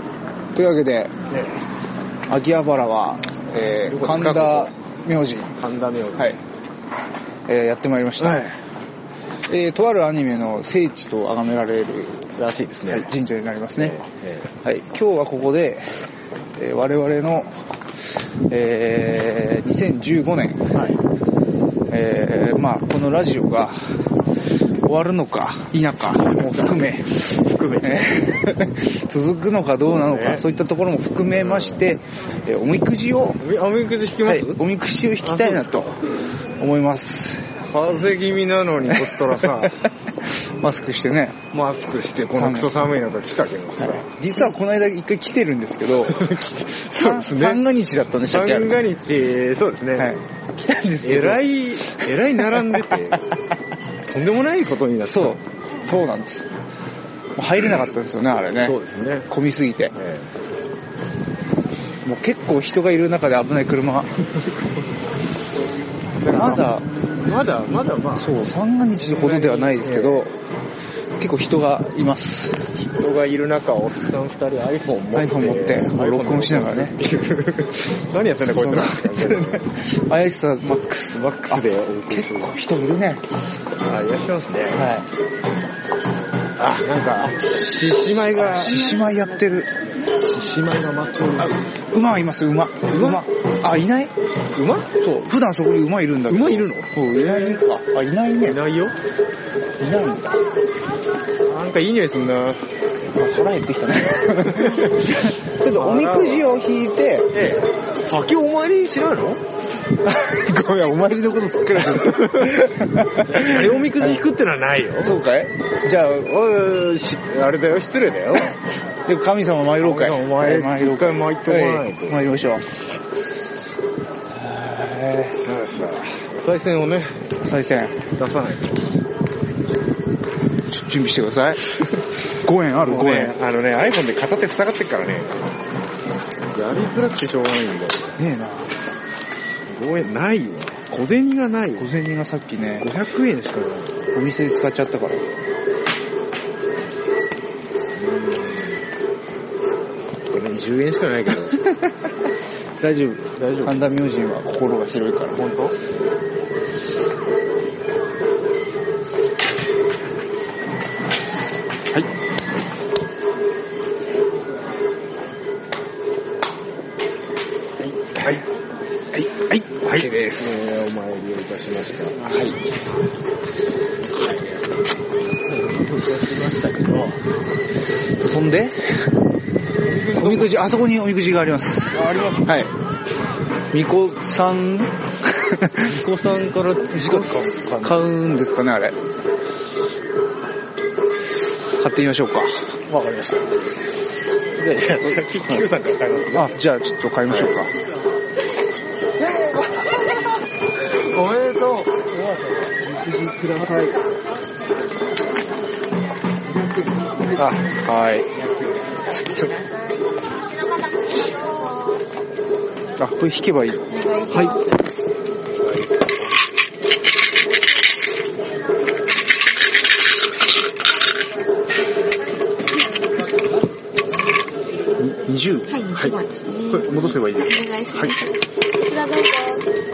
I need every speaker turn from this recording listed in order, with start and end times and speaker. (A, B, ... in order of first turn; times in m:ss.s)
0:00.6-0:01.1 A
0:02.3-0:05.5 A
0:03.8-0:04.7 B
0:05.6-0:06.4 B
0:07.5-0:08.4 A
0:08.2-0:08.6 B
0:09.5-0:12.2 A
0:12.4-0:13.1 B
0:12.9-0:14.0 A
0:13.8-0:14.5 B
0:14.6-0:15.9 A
0:16.6-0:17.6 A
0:18.5-0:20.7 A
0:20.7-0:21.0 B
0:21.9-0:23.8 A
0:24.8-0:27.0 A
0:26.4-0:28.4 B
0:27.8-0:33.4 A
0:29.9-0:30.4 B
0:31.3-0:31.9 B
0:33.4-0:34.6 B
0:34.3-0:35.9 A
0:35.2-0:35.8 B
0:36.6-0:37.4 A
0:37.6-0:39.7 B
0:39.4-0:39.7 A
0:40.3-0:41.4 A
0:41.5-0:44.2 B
0:42.4-0:42.7 A
0:44.0-0:46.2 A
0:46.0-0:47.6 B
0:46.9-0:48.7 A
0:48.3-0:50.1 B
0:50.0-0:51.4 A
0:51.0-0:53.2 B
0:54.0-0:55.4 B
0:55.0-0:56.5 A
0:57.4-0:58.8 A
0:58.6-0:59.3 B
0:59.3-0:59.9 A
1:00.0-1:00.3 B
1:02.0-1:04.1 A
1:04.4-1:04.7 B
1:06.1-1:08.3 B
1:06.3-1:06.8 A
1:08.2-1:10.3 A
1:09.0-1:10.2 B
1:11.2-1:12.6 A
1:12.7-1:19.7 B
1:15.1-1:16.9 A
1:18.6-1:23.2 A
1:21.1-1:22.5 B
1:23.8-1:24.9 B
1:24.8-1:25.1 A
1:26.6-1:29.0 B
1:28.6-1:29.7 A
1:30.2-1:31.6 B
1:31.4-1:34.1 A
1:32.9-1:33.2 B
1:34.6-1:34.9 B
1:35.0-1:38.6 A
1:36.3-1:37.6 B
1:38.4-1:39.0 B
1:39.8-1:40.4 A
1:41.5-1:42.6 B
1:43.2-1:47.3 A
1:44.6-1:45.1 B
1:45.7-1:46.6 B
1:47.3-1:49.4 B
1:50.2-1:54.1 A
1:51.6-1:55.2 B
1:55.0-1:56.1 A
1:55.9-1:58.6 B
1:59.1-2:02.6 A
1:59.8-2:02.3 B
2:04.4-2:05.4 A
2:05.3-2:07.4 B
2:07.4-2:08.0 A
2:08.1-2:08.9 B
2:10.7-2:11.7 A
2:12.4-2:13.3 A
2:12.8-2:15.4 B
2:16.5-2:18.2 B
2:18.2-2:18.7 A
2:19.7-2:21.9 B
2:21.8-2:22.9 A
2:22.8-2:24.1 B
2:24.1-2:25.2 A
2:28.0-2:28.8 B
2:30.3-2:31.6 B
2:32.8-2:33.9 B
2:33.6-2:35.4 A
2:35.3-2:35.8 B
2:47.8-2:48.4 B
2:49.1-2:50.6 A
2:49.8-2:52.5 B
2:52.3-2:52.6 A
2:55.5-2:57.2 B
2:58.2-2:58.8 A
2:59.8-3:00.6 B
3:00.2-3:02.7 A
3:01.9-3:02.6 B
3:03.7-3:05.8 A
3:05.8-3:08.1 B
3:07.0-3:09.0 A
3:11.8-3:12.7 A
3:12.9-3:13.7 B
3:14.6-3:16.5 B
3:16.4-3:17.7 A
3:20.9-3:24.0 B
3:27.3-3:28.4 B
3:33.0-3:33.9 A
3:33.9-3:34.7 C
3:34.3-3:34.6 B
3:45.0-3:45.8 A
3:45.7-3:49.6 C
3:46.8-3:48.1 A